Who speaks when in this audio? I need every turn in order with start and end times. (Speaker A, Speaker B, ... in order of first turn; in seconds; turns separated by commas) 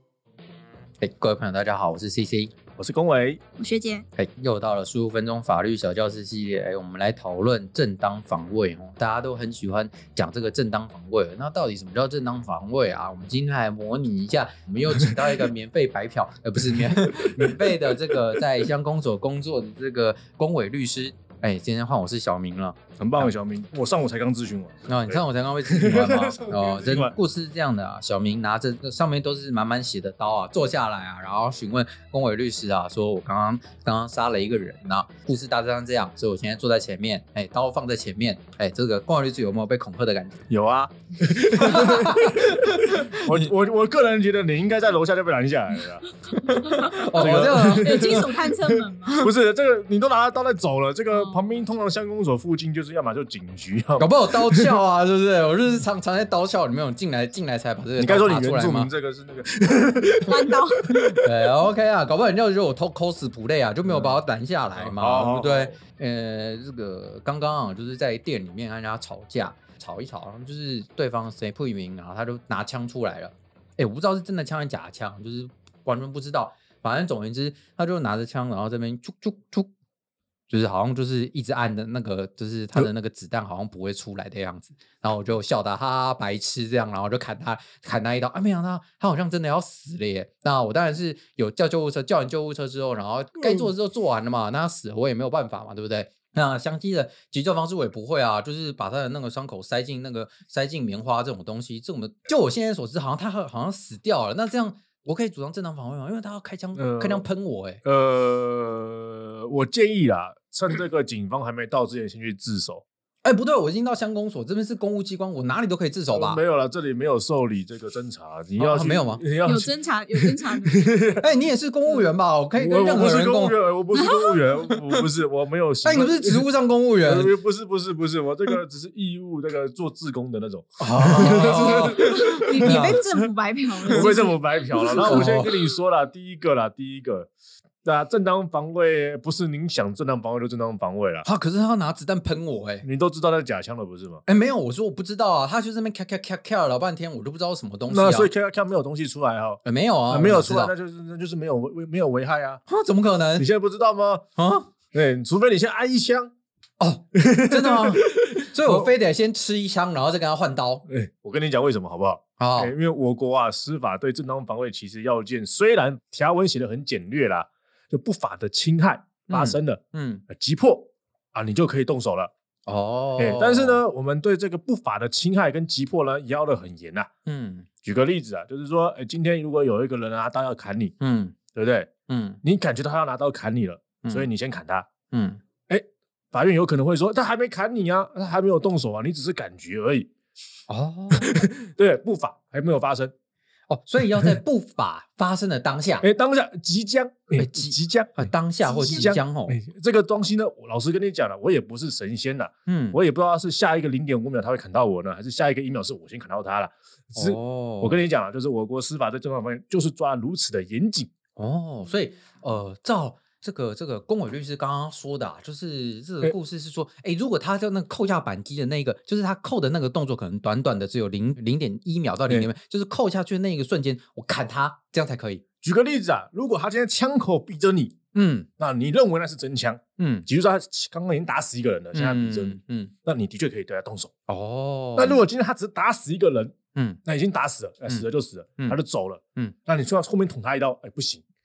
Speaker A: 1.0-2.5, Speaker B: 2.8-3.4, Speaker C: 3.6-4.0, Speaker A: 4.2-23.3, Speaker B: 16.7-18.4, Speaker B: 23.0-27.2, Speaker A: 24.9-40.5, Speaker B: 40.5-54.8, Speaker A: 41.6-43.5, Speaker A: 46.4-48.3, Speaker C: 46.5-49.3, Speaker C: 51.1-51.5, Speaker A: 54.0-58.9, Speaker B: 58.0-61.2, Speaker C: 60.3-60.9, Speaker A: 61.2-79.7, Speaker B: 63.9-64.2, Speaker B: 64.8-65.8, Speaker A: 80.5-107.8, Speaker B: 93.4-93.7, Speaker B: 106.8-107.3, Speaker B: 107.8-112.8, Speaker A: 113.2-116.4, Speaker B: 116.1-121.3, Speaker A: 118.6-119.2, Speaker C: 119.4-121.0, Speaker A: 121.2-123.6, Speaker B: 122.6-126.5, Speaker C: 123.9-124.4, Speaker A: 124.7-125.0, Speaker A: 125.8-127.3, Speaker B: 127.0-133.2, Speaker A: 130.8-133.0, Speaker C: 131.2-135.3, Speaker B: 133.9-137.3, Speaker A: 135.0-135.6, Speaker B: 137.8-141.3, Speaker A: 141.2-142.9, Speaker B: 142.8-144.2, Speaker A: 144.3-148.3, Speaker B: 147.9-152.6, Speaker A: 149.6-150.7, Speaker A: 152.7-153.5, Speaker B: 153.4-154.2, Speaker A: 154.4-154.7, Speaker B: 154.9-156.3, Speaker A: 156.8-160.9, Speaker B: 157.2-158.9, Speaker B: 160.9-172.3, Speaker A: 162.4-162.7, Speaker A: 169.3-170.3, Speaker A: 172.7-173.8, Speaker B: 173.2-177.1, Speaker A: 177.3-177.7, Speaker B: 177.8-180.9, Speaker A: 181.0-181.4, Speaker B: 181.6-181.9, Speaker A: 182.1-182.4, Speaker B: 182.4-184.9, Speaker A: 185.1-185.4, Speaker B: 185.7-190.1, Speaker A: 190.7-191.3, Speaker B: 191.1-193.1, Speaker A: 193.7-196.1, Speaker B: 196.0-211.1, Speaker A: 197.4-199.6, Speaker C: 198.6-199.1, Speaker A: 202.7-203.0, Speaker A: 207.2-208.0, Speaker A: 211.4-225.4, Speaker B: 225.6-228.0, Speaker A: 228.1-228.5, Speaker B: 228.6-234.1, Speaker A: 230.0-230.3, Speaker A: 231.9-232.9, Speaker A: 234.3-235.2, Speaker B: 235.0-236.6, Speaker A: 236.8-237.0, Speaker B: 237.1-241.2